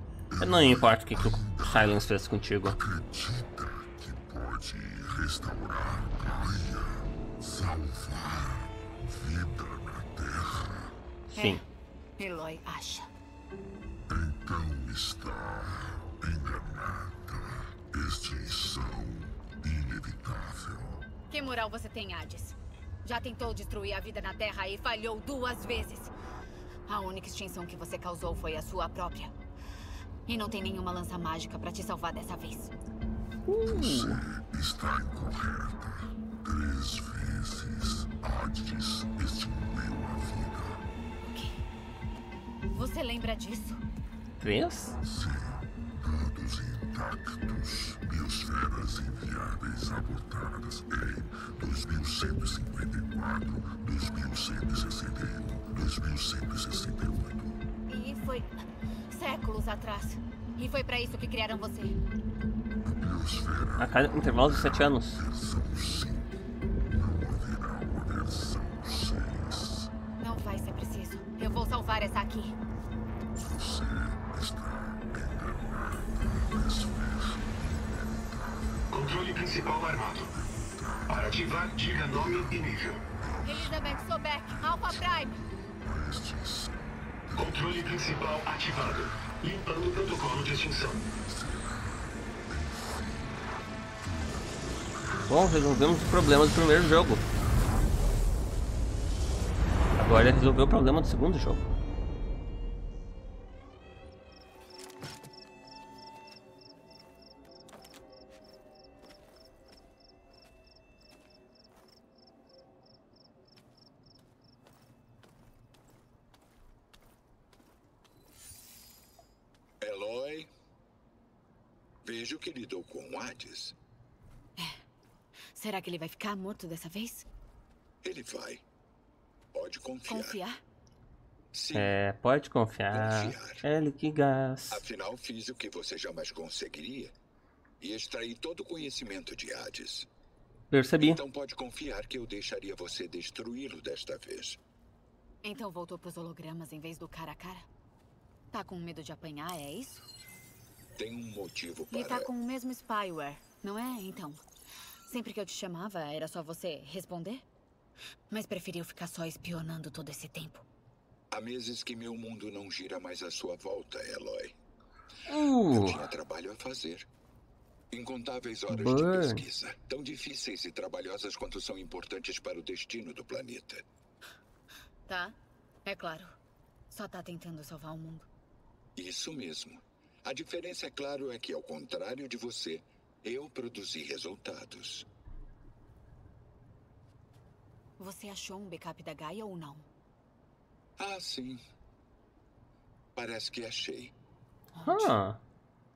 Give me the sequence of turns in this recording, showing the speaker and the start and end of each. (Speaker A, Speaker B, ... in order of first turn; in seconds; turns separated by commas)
Speaker A: 0.3-2.0, Speaker B: 0.4-2.8, Speaker A: 2.6-11.0, Speaker B: 11.3-11.6, Speaker C: 11.3-11.6, Speaker C: 12.2-13.1, Speaker A: 14.1-21.1, Speaker C: 21.3-26.1, Speaker C: 26.9-29.3, Speaker C: 30.2-32.7, Speaker B: 33.5-34.2, Speaker A: 33.6-40.8, Speaker C: 41.2-41.6, Speaker C: 42.7-43.8, Speaker B: 44.4-45.0, Speaker A: 45.0-57.6, Speaker C: 57.9-58.6, Speaker C: 59.1-62.0, Speaker A: 62.8-69.9, Speaker B: 63.8-65.2, Speaker C: 70.2-72.6, Speaker A: 73.3-78.9, Speaker D: 78.9-80.3, Speaker A: 80.2-88.3, Speaker D: 81.1-83.0, Speaker C: 83.4-85.3, Speaker D: 87.3-91.0, Speaker A: 91.2-95.3, Speaker B: 95.3-97.2, Speaker B: 100.0-101.7, Speaker E: 119.8-120.5, Speaker E: 122.0-123.8, Speaker C: 124.6-124.8, Speaker C: 125.5-127.3, Speaker E: 128.0-128.6, Speaker E: 129.5-130.4, Speaker C: 130.1-130.6, Speaker E: 131.5-131.9, Speaker B: 131.7-134.8, Speaker E: 132.9-133.6, Speaker E: 134.7-137.1, Speaker E: 137.8-140.1, Speaker B: 140.7-141.2, Speaker E: 141.0-144.6, Speaker C: 145.4-147.7, Speaker C: 148.5-150.1, Speaker E: 151.0-152.3, Speaker C: 151.9-154.4, Speaker C: 155.1-157.4, Speaker C: 158.3-160.7, Speaker E: 161.3-164.6, Speaker B: 165.3-166.0, Speaker E: 165.7-167.1, Speaker E: 167.9-173.8, Speaker B: 168.7-169.4, Speaker C: 175.1-176.4, Speaker C: 176.9-178.3, Speaker E: 178.9-185.1, Speaker C: 188.0-189.9, Speaker E: 191.0-191.6, Speaker E: 193.1-194.1, Speaker C: 194.7-195.2, Speaker B: 194.8-195.4